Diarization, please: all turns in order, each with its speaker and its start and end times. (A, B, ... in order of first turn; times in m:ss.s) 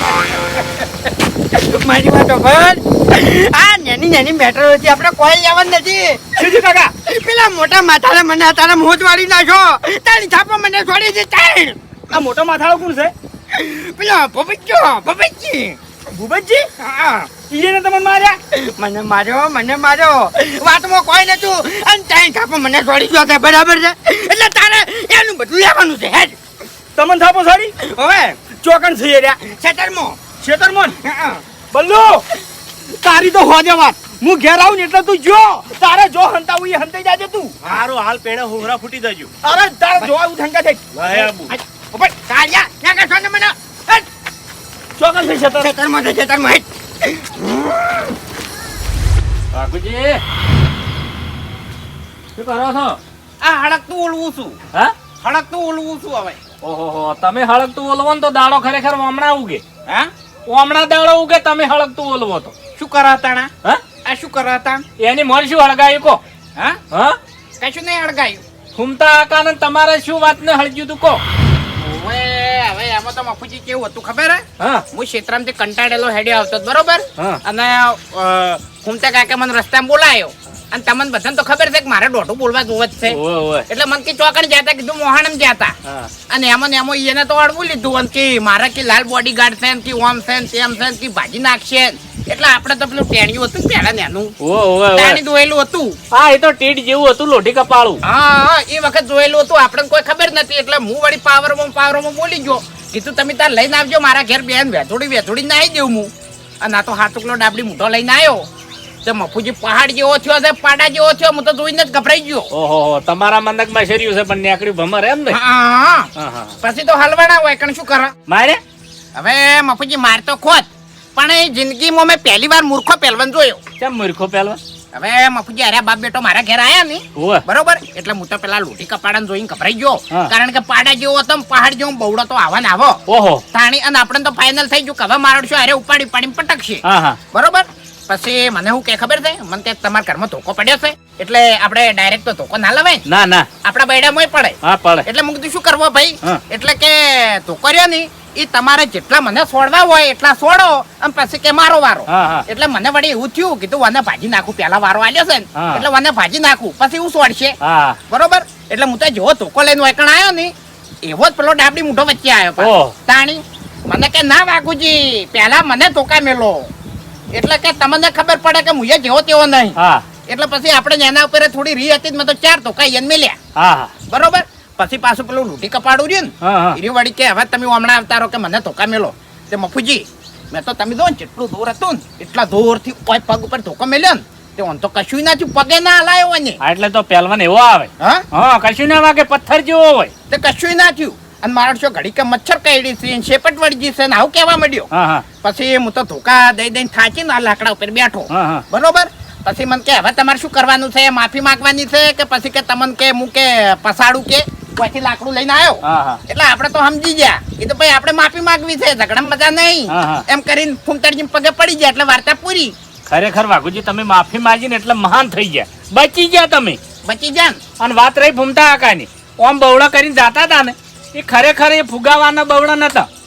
0:01.5-0:06.3 A
0:06.4-0:06.9 B
0:07.0-0:11.8 A
0:12.1-0:13.1 B
0:13.5-0:15.8 A
0:16.1-0:16.7 B
0:16.8-0:17.3 A
0:17.5-0:18.4 B
0:18.5-0:26.4 A
0:27.0-0:27.7 B
0:27.8-0:28.4 A
0:28.6-0:29.4 B
0:29.4-0:30.2 A
0:30.4-0:31.0 B
0:31.0-0:31.4 A
0:31.7-0:32.2 B
0:33.0-0:37.5 B
0:37.7-0:39.3 C
0:39.4-0:41.0 B
0:40.9-0:41.5 C
0:41.1-0:44.1 A
0:45.0-0:45.6 B
0:45.5-0:48.1 A
0:49.5-0:50.2 D
0:52.4-0:53.0 D
0:53.4-0:54.6 E
0:55.2-0:56.4 E
0:56.6-0:59.6 D
1:00.5-1:02.6 D
1:02.8-1:03.5 E
1:04.0-1:04.8 E
1:05.0-1:06.2 D
1:06.9-1:07.2 D
1:07.6-1:08.4 E
1:08.8-1:11.2 D
1:11.8-1:23.2 E
1:23.1-1:23.6 D
1:23.7-1:25.7 E
1:26.3-1:34.3 E
1:34.4-1:35.2 D
1:35.0-1:36.0 E
1:36.1-1:38.0 D
1:38.1-1:46.1 E
1:46.6-1:48.4 E
1:49.0-1:52.5 E
1:52.5-1:55.4 D
1:55.3-1:56.1 E
1:56.2-1:56.5 D
1:56.6-1:58.1 E
1:58.3-1:58.6 D
1:59.2-2:03.6 E
2:03.8-2:04.6 D
2:04.9-2:13.0 E
2:07.2-2:07.4 D
2:13.1-2:13.4 D
2:13.5-2:23.0 E
2:16.8-2:17.2 D
2:23.1-2:23.5 D
2:23.6-2:37.6 E
2:24.6-2:25.0 D
2:32.1-2:32.4 D
2:35.6-2:35.8 D
2:37.6-2:38.0 D
2:38.1-2:40.5 E
2:41.0-2:46.7 E
2:42.6-2:42.9 D
2:47.3-2:49.8 E
2:49.8-2:50.0 D
2:50.3-2:53.4 E
2:53.6-2:53.9 D
2:54.1-3:06.6 E
2:56.4-2:56.8 D
3:06.6-3:10.1 D
3:10.3-3:14.9 E
3:14.9-3:15.2 D
3:15.4-3:32.7 E
3:18.3-3:18.6 D
3:25.9-3:26.2 D
3:29.9-3:30.2 D
3:33.1-3:36.8 D
3:37.0-3:37.6 E
3:37.8-3:43.1 D